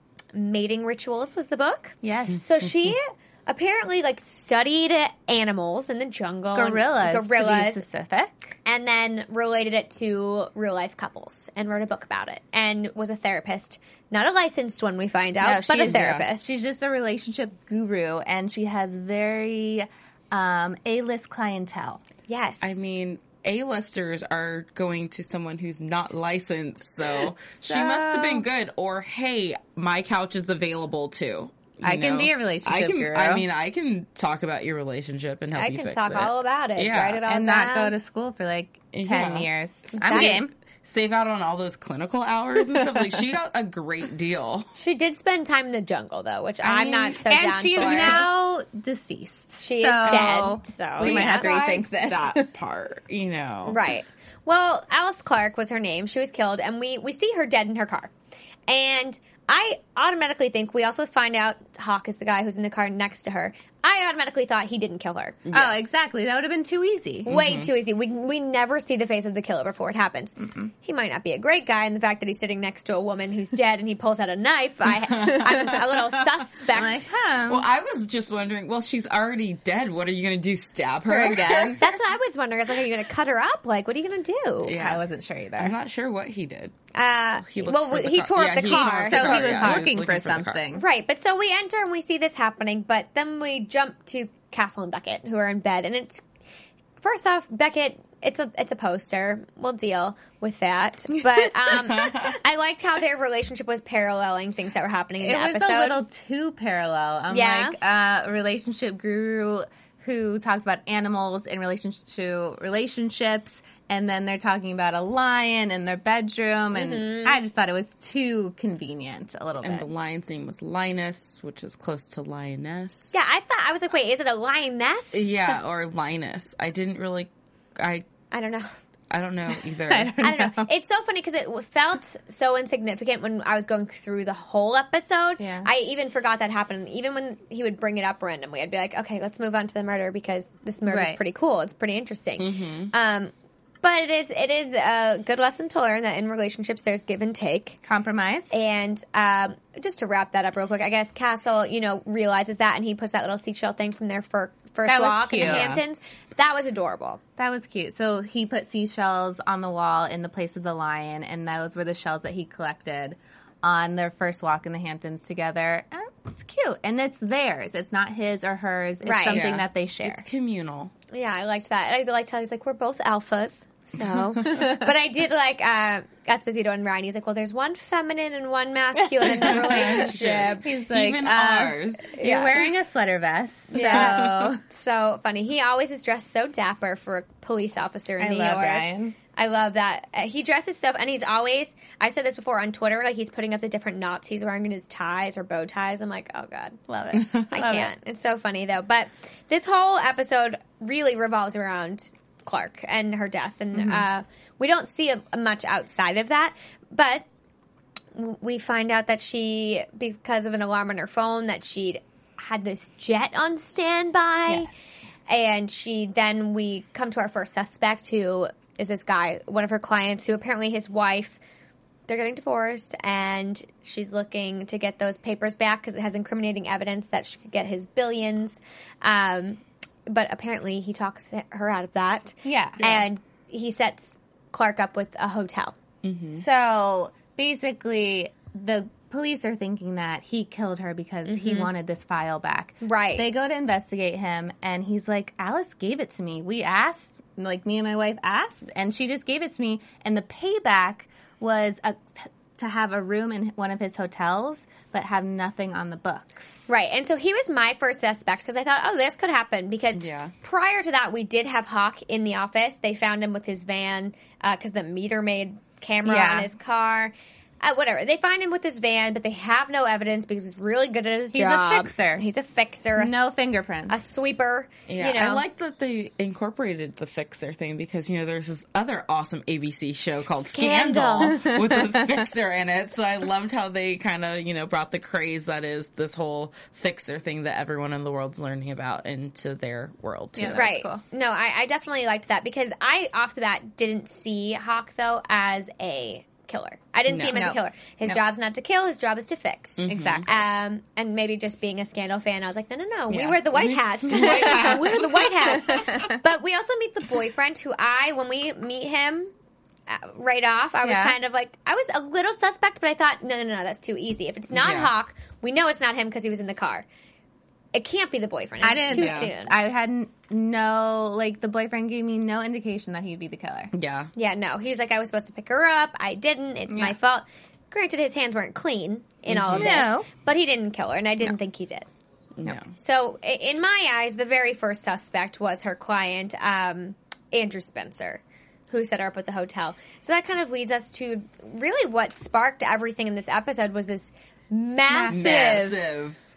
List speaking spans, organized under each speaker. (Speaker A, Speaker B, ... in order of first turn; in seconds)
Speaker A: 0.3-7.8, 8.7-16.5, 22.3-22.8, 35.5-37.9, 39.9-40.4, 44.8-48.2, 49.6-51.5, 53.6-58.1, 58.7-65.4, 67.2-77.1, 81.8-84.8, 86.9-89.8, 90.7-96.2, 97.0-106.0, 107.3-107.8, 116.7-117.4, 123.1-125.6, 128.3-128.7, 130.2-147.8, 148.5-157.2, 169.0-169.4, 171.1-180.7, 182.2-182.6, 183.7-196.8, 197.5-207.2, 208.1-214.7, 215.3-221.4, 222.1-235.7, 241.3-241.7, 242.8-243.3, 256.7-273.3, 273.9-275.4, 280.4-281.4, 290.5-309.3, 309.9-316.9, 317.7-319.5, 324.1-331.9, 332.8-345.8
Speaker B: 2.0-2.5, 6.5-8.5, 15.4-22.0, 27.6-28.4, 31.8-33.4, 37.2-40.5, 46.7-52.5, 65.5-67.3, 70.4-70.7, 76.7-77.6, 81.1-81.8, 84.8-85.7, 88.6-90.8, 105.2-119.9, 129.8-130.7, 135.4-135.7, 140.9-141.2, 147.8-148.6, 154.9-155.7, 157.4-170.2, 174.4-174.8, 179.2-184.6, 188.2-189.2, 196.9-197.9, 232.4-232.8, 236.3-256.6, 266.0-266.5, 271.3-272.2, 273.0-273.9, 281.2-282.1, 290.4-291.0, 297.3-298.2, 299.9-300.3, 304.3-304.8, 305.5-306.2, 310.8-311.1, 318.6-323.7, 326.7-326.9, 329.5-330.1, 344.9-345.7
Speaker C: 15.8-16.3, 22.6-37.2, 38.9-44.7, 47.8-48.2, 51.0-53.8, 65.5-65.8, 67.2-67.7, 75.0-76.4, 77.5-81.8, 84.6-85.0, 85.6-86.7, 87.5-90.6, 101.7-102.4, 119.6-123.1, 125.1-128.1, 129.1-130.1, 142.4-142.9, 155.4-155.8, 169.3-170.9, 179.2-182.1, 183.8-184.5, 197.1-197.4, 232.8-233.0, 236.0-236.4, 259.9-260.3, 274.9-290.7, 297.1-297.5, 299.8-300.3, 303.1-306.0, 314.5-314.9, 318.9-319.3, 323.7-324.1, 329.3-329.9, 332.4-332.7, 345.1-346.2